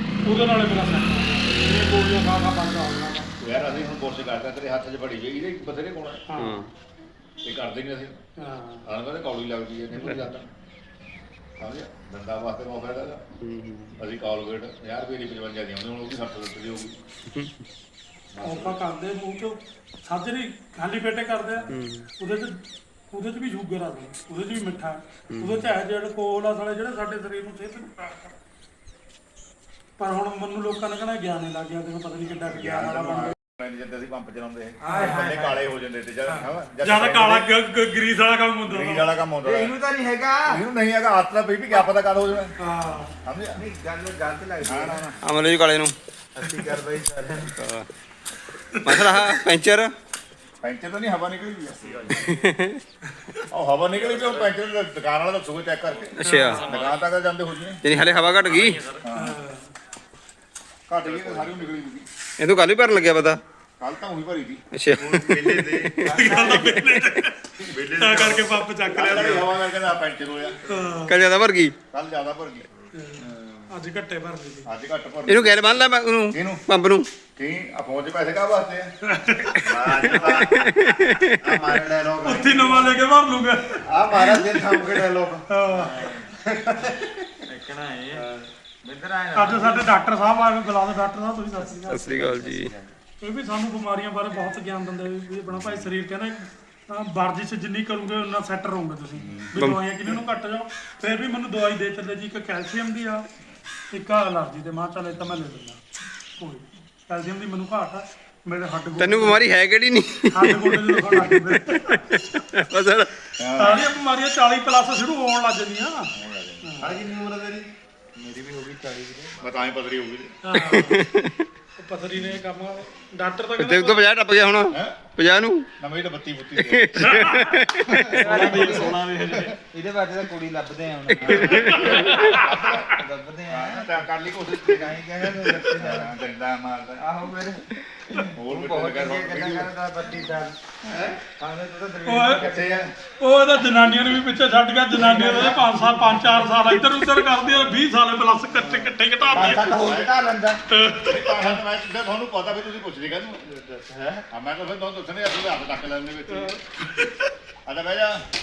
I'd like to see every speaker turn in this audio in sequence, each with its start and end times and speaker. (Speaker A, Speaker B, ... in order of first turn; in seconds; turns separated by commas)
Speaker A: 0.2-3.3, Speaker B: 3.4-6.2, Speaker A: 6.3-6.6, Speaker C: 6.4-6.7, Speaker B: 7.4-8.2, Speaker A: 8.4-8.8, Speaker B: 8.8-10.5, Speaker C: 10.0-10.2, Speaker B: 11.6-13.2, Speaker C: 13.4-13.9, Speaker B: 14.0-16.9, Speaker C: 17.3-17.6, Speaker B: 18.3-18.8, Speaker A: 18.4-22.6, Speaker C: 21.7-22.1, Speaker A: 23.1-28.3, Speaker C: 25.3-25.7, Speaker A: 30.0-33.3, Speaker B: 32.4-37.5, Speaker D: 34.8-35.6, Speaker A: 36.3-39.1, Speaker B: 38.7-39.7, Speaker D: 39.4-40.6, Speaker B: 40.5-42.5, Speaker A: 42.6-43.1, Speaker B: 43.2-43.6, Speaker D: 43.5-45.2, Speaker B: 44.6-45.0, Speaker C: 45.2-45.9, Speaker D: 46.4-47.5, Speaker C: 47.6-47.9, Speaker C: 48.8-49.9, Speaker B: 50.6-52.3, Speaker C: 52.1-52.8, Speaker B: 53.5-57.8, Speaker C: 56.2-56.6, Speaker A: 56.2-56.7, Speaker C: 57.8-58.8, Speaker B: 59.0-59.3, Speaker A: 59.1-59.6, Speaker B: 60.9-62.1, Speaker C: 62.4-63.4, Speaker B: 63.8-64.6, Speaker C: 64.7-66.1, Speaker D: 65.0-66.8, Speaker A: 66.0-67.3, Speaker B: 67.6-70.6, Speaker A: 68.0-69.6, Speaker A: 70.7-71.2, Speaker C: 71.0-71.7, Speaker B: 71.9-72.7, Speaker A: 73.0-74.7, Speaker D: 73.2-73.6, Speaker B: 74.7-76.6, Speaker C: 75.3-77.1, Speaker B: 77.3-78.9, Speaker A: 79.1-79.7, Speaker B: 79.6-80.5, Speaker D: 79.7-80.4, Speaker C: 80.0-81.5, Speaker D: 81.5-82.9, Speaker A: 82.2-84.7, Speaker D: 84.0-86.4, Speaker A: 85.5-86.0, Speaker D: 87.5-88.3, Speaker D: 88.8-89.9, Speaker A: 89.3-92.1, Speaker C: 91.9-92.7, Speaker D: 92.0-92.9, Speaker A: 93.2-103.3, Speaker B: 95.5-95.8, Speaker C: 99.5-99.8, Speaker A: 103.9-105.8, Speaker A: 106.4-109.5, Speaker C: 109.0-113.1, Speaker A: 110.3-111.9, Speaker D: 113.4-113.8, Speaker A: 113.6-116.1, Speaker B: 116.1-116.9, Speaker A: 116.6-117.0, Speaker D: 116.8-117.3, Speaker D: 118.2-119.5, Speaker B: 119.4-120.3, Speaker A: 120.4-121.0, Speaker C: 120.6-121.3, Speaker A: 121.8-124.0, Speaker C: 123.6-125.7, Speaker B: 124.7-125.0, Speaker B: 125.8-127.2, Speaker C: 126.7-129.1, Speaker A: 127.0-127.5, Speaker D: 127.9-134.1, Speaker B: 128.2-129.5, Speaker C: 131.3-132.2, Speaker B: 131.5-133.0, Speaker A: 131.6-132.4, Speaker B: 133.5-137.1, Speaker D: 134.6-136.1, Speaker D: 137.0-142.9, Speaker B: 138.3-139.7, Speaker A: 142.0-142.4, Speaker A: 143.2-149.8, Speaker D: 144.9-146.5, Speaker D: 148.5-150.6, Speaker B: 149.3-150.1, Speaker A: 150.7-151.6, Speaker B: 151.0-153.5, Speaker B: 154.3-156.6, Speaker A: 156.3-157.3, Speaker B: 157.7-158.2